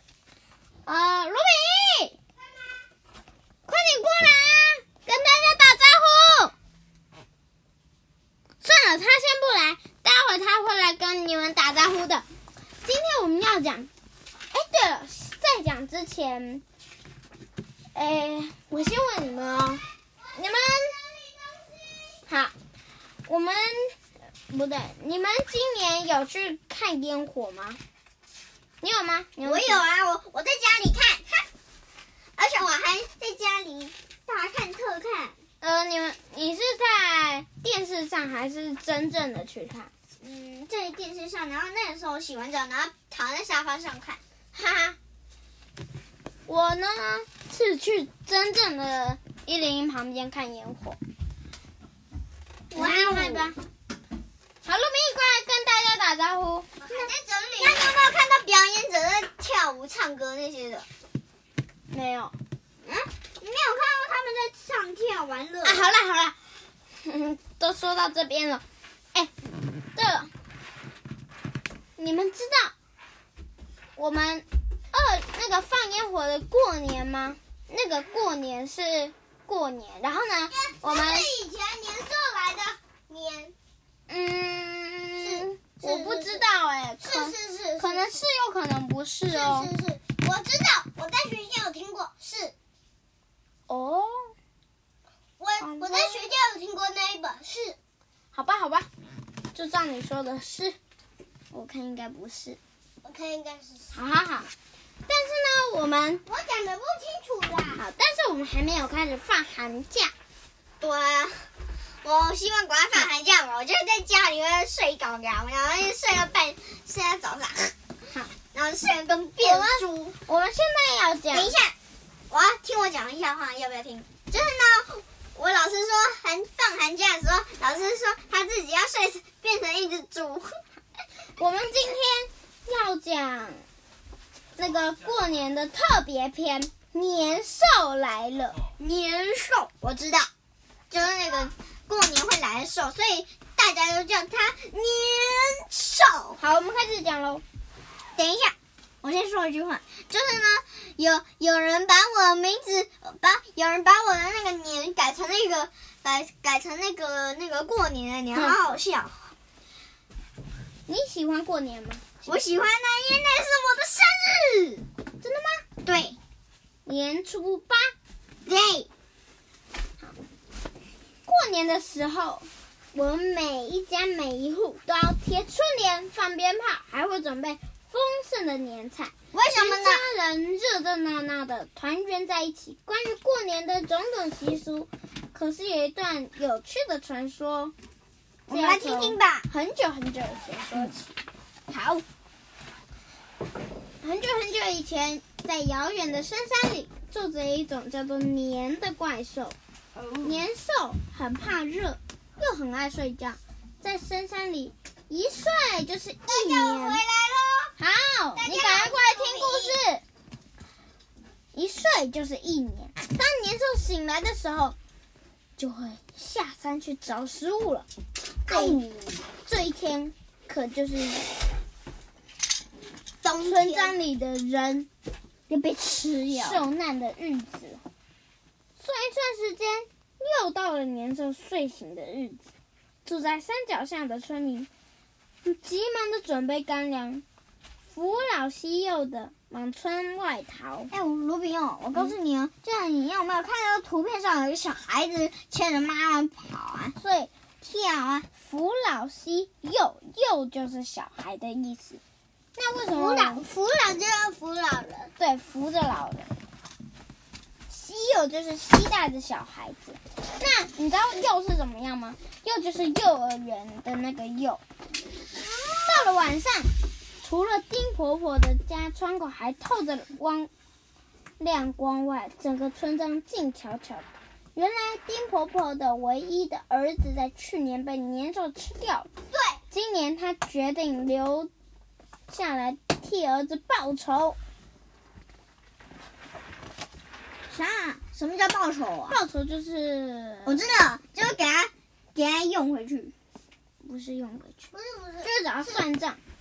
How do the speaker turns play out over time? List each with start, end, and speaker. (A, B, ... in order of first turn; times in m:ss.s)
0:00.8-0:02.1 A
0:03.7-0:06.5 A
0:08.6-0:12.2 A
0:12.8-0:13.9 A
0:14.5-0:16.6 A
0:17.9-0:19.8 A
0:20.3-0:21.0 A
0:20.7-0:22.2 B
0:22.3-0:22.5 A
0:23.3-0:24.0 A
0:24.5-0:27.8 A
0:28.8-0:29.8 A
0:29.4-0:31.5 B
0:32.4-0:35.3 B
0:35.6-0:39.9 A
0:40.2-0:44.2 B
0:44.5-0:45.0 A
0:46.5-0:51.0 A
0:52.7-0:53.6 A
0:52.7-0:53.5 B
0:54.6-0:57.1 A
0:56.8-1:00.8 B
1:01.9-1:02.3 A
1:03.4-1:05.9 B
1:05.6-1:06.4 A
1:07.0-1:08.6 A
1:09.9-1:10.3 A
1:12.0-1:12.7 A
1:14.0-1:21.3 A
1:20.5-1:23.5 B
1:24.1-1:29.7 A
1:25.2-1:26.4 B
1:27.0-1:28.2 B
1:29.3-1:32.5 B
1:33.7-1:34.3 A
1:35.4-1:37.8 B
1:35.6-1:36.3 A
1:38.3-1:38.9 A
1:39.5-1:40.8 A
1:41.5-1:42.6 A
1:43.0-1:43.9 B
1:43.9-1:44.5 A
1:45.1-1:46.2 A
1:46.2-1:47.8 B
1:47.7-1:50.1 A
1:50.8-1:51.5 B
1:52.0-1:57.7 B
1:58.5-2:00.1 B
1:59.4-2:01.5 A
2:01.3-2:01.7 B
2:02.3-2:10.6 B
2:11.4-2:13.6 A
2:14.6-2:18.7 A
2:18.8-2:20.3 B
2:20.9-2:26.4 B
2:26.4-2:27.4 A
2:28.2-2:39.2 B
2:38.3-2:38.6 A
2:40.9-2:42.0 A
2:42.2-2:44.8 B
2:45.2-2:45.6 A
2:45.8-2:46.2 B
2:46.8-2:47.9 A
2:48.4-2:48.9 B
2:51.2-3:07.7 A
2:59.3-3:00.0 B
3:08.5-3:11.2 A
3:08.5-3:09.5 B
3:11.7-3:12.0 B
3:14.0-3:19.6 A
3:19.9-3:20.4 B
3:20.2-3:27.0 A
3:26.2-3:27.7 B
3:27.8-3:30.0 A
3:28.4-3:29.8 B
3:31.5-3:34.8 A
3:35.6-3:37.9 A
3:38.4-3:39.2 B
3:38.5-3:38.8 A
3:39.4-3:41.4 A
3:43.2-3:44.0 B
3:43.4-3:44.9 A
3:45.5-3:46.6 B
3:46.3-3:47.8 A
3:48.8-3:52.4 A
3:53.0-3:54.7 A
3:55.4-3:57.2 A
3:57.9-4:00.9 A
4:00.9-4:07.0 B
4:07.0-4:07.3 A
4:07.6-4:08.3 B
4:08.3-4:12.0 A
4:12.6-4:13.4 A
4:12.9-4:15.1 B
4:15.2-4:16.3 A
4:17.7-4:24.6 A
4:25.3-4:26.1 B
4:25.9-4:26.7 A
4:27.2-4:30.5 A
4:31.4-4:39.1 A
4:39.3-4:39.6 B
4:39.7-4:41.5 A
4:42.3-4:44.4 A
4:47.5-4:49.2 B
4:49.1-4:50.6 A
4:50.4-4:53.1 B
4:53.8-4:56.2 A
4:54.7-4:55.8 B